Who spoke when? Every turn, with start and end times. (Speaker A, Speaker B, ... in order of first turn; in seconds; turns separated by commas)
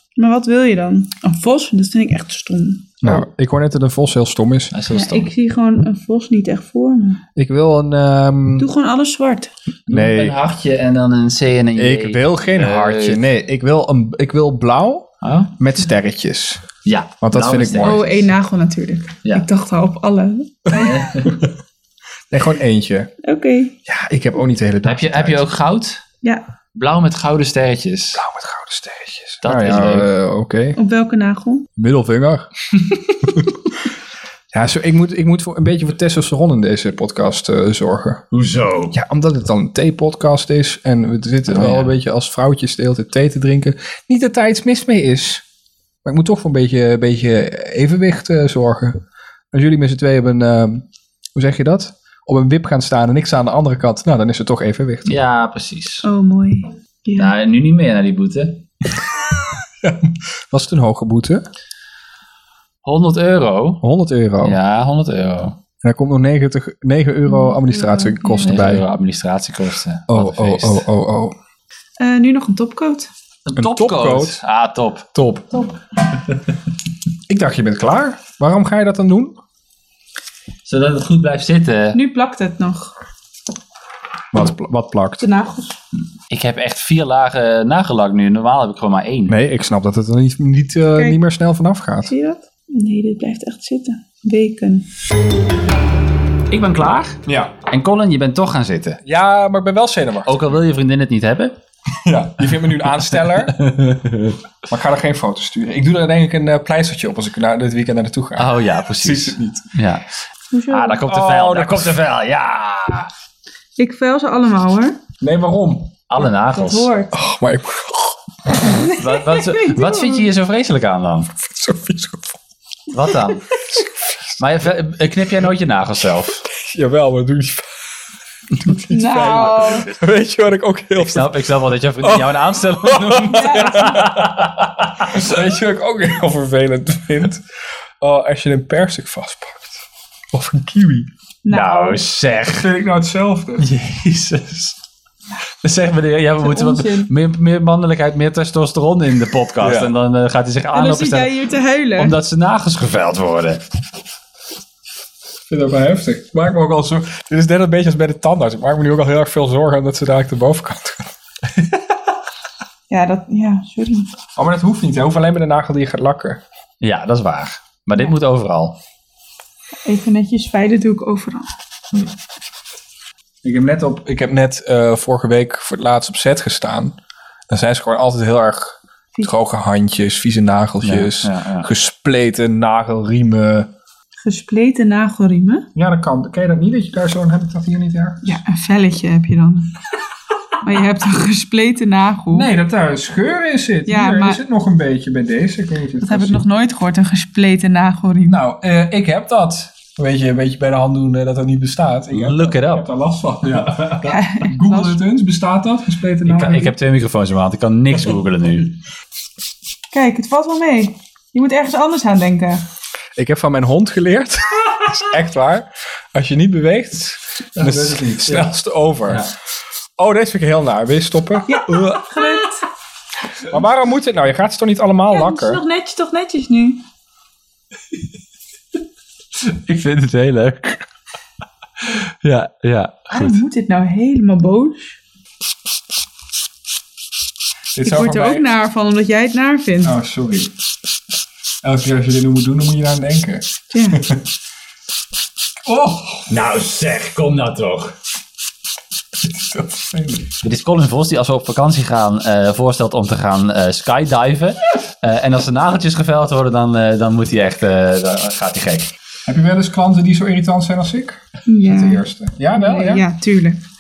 Speaker A: 0.2-3.1, Speaker B: 3.0-4.8, Speaker C: 4.7-5.3, Speaker A: 4.9-7.2, Speaker B: 7.4-8.7, Speaker A: 8.6-9.5, Speaker C: 9.9-13.2, Speaker B: 9.9-10.4, Speaker B: 11.8-16.6, Speaker C: 15.2-15.6, Speaker C: 16.9-18.1, Speaker B: 17.2-18.1, Speaker A: 17.8-21.3, Speaker C: 20.7-21.4, Speaker B: 22.3-23.1, Speaker A: 23.2-23.8, Speaker B: 23.9-25.4, Speaker C: 24.8-26.0, Speaker C: 26.7-28.2, Speaker B: 28.1-30.8, Speaker C: 29.4-30.1, Speaker A: 30.8-31.7, Speaker B: 31.8-32.5, Speaker B: 34.5-38.3, Speaker C: 38.3-39.0, Speaker B: 38.9-45.4, Speaker C: 41.5-41.9, Speaker B: 46.0-49.0, Speaker B: 49.5-50.8, Speaker B: 51.4-55.1, Speaker C: 55.1-56.0, Speaker A: 56.0-57.3, Speaker C: 57.2-58.6, Speaker B: 59.8-61.4, Speaker C: 62.8-63.8, Speaker B: 63.8-64.6, Speaker C: 64.4-65.6, Speaker B: 65.8-68.8, Speaker A: 67.3-68.8, Speaker C: 68.4-70.8, Speaker B: 70.1-71.3, Speaker A: 72.0-73.1, Speaker C: 73.5-75.1, Speaker B: 73.6-74.4, Speaker B: 75.1-75.5, Speaker B: 77.3-79.4, Speaker C: 80.7-82.0, Speaker A: 81.9-82.9, Speaker B: 84.3-85.2, Speaker A: 85.2-85.8, Speaker C: 86.3-89.3, Speaker B: 89.3-92.1, Speaker A: 92.0-94.9, Speaker C: 96.5-99.0, Speaker B: 97.3-97.5, Speaker B: 99.0-100.4, Speaker C: 100.2-101.5, Speaker B: 102.0-103.6, Speaker C: 102.7-104.4, Speaker B: 104.7-109.7, Speaker C: 108.4-110.1, Speaker A: 110.5-111.0, Speaker C: 110.7-113.1, Speaker B: 111.0-112.0, Speaker A: 113.8-115.0, Speaker B: 115.2-115.9, Speaker C: 116.1-116.9, Speaker A: 116.2-117.2, Speaker B: 117.1-118.5, Speaker A: 118.6-120.3, Speaker C: 118.9-121.3, Speaker B: 121.4-122.4, Speaker C: 122.9-123.5, Speaker C: 124.4-126.5, Speaker B: 126.5-127.7, Speaker B: 128.6-131.4, Speaker A: 128.9-129.9, Speaker C: 131.0-135.2, Speaker B: 132.0-137.4, Speaker A: 133.3-134.0, Speaker B: 138.0-141.1, Speaker A: 141.4-142.0, Speaker C: 141.5-142.7, Speaker B: 142.5-143.7, Speaker C: 143.6-144.8, Speaker C: 145.6-151.3, Speaker A: 146.4-147.1, Speaker B: 149.6-149.9, Speaker A: 150.7-152.2, Speaker C: 152.0-153.6, Speaker B: 155.5-161.1, Speaker A: 162.9-164.1, Speaker B: 164.4-166.4, Speaker C: 166.8-168.8, Speaker A: 169.8-171.5, Speaker B: 173.4-177.0, Speaker B: 177.5-183.7, Speaker C: 180.8-181.7, Speaker A: 184.2-185.7, Speaker B: 185.8-188.4, Speaker A: 188.2-189.8, Speaker A: 190.6-192.5, Speaker B: 192.3-196.4, Speaker A: 193.9-194.4, Speaker A: 196.0-198.4, Speaker B: 198.3-206.7, Speaker C: 202.1-202.8, Speaker A: 204.1-205.0, Speaker C: 206.3-208.8, Speaker A: 209.9-212.6, Speaker B: 213.2-219.3, Speaker C: 217.6-218.5, Speaker B: 220.0-222.0, Speaker A: 221.5-222.6, Speaker B: 223.5-225.6, Speaker A: 225.1-226.8, Speaker C: 229.4-230.9, Speaker C: 232.2-233.4, Speaker A: 233.1-235.0, Speaker B: 237.8-238.4, Speaker A: 237.8-239.9, Speaker B: 239.8-240.5, Speaker B: 241.6-244.3, Speaker A: 243.7-244.0, Speaker B: 245.7-246.3, Speaker C: 246.3-248.0, Speaker B: 249.2-250.3, Speaker C: 250.4-258.9, Speaker B: 259.3-263.0, Speaker A: 261.5-263.6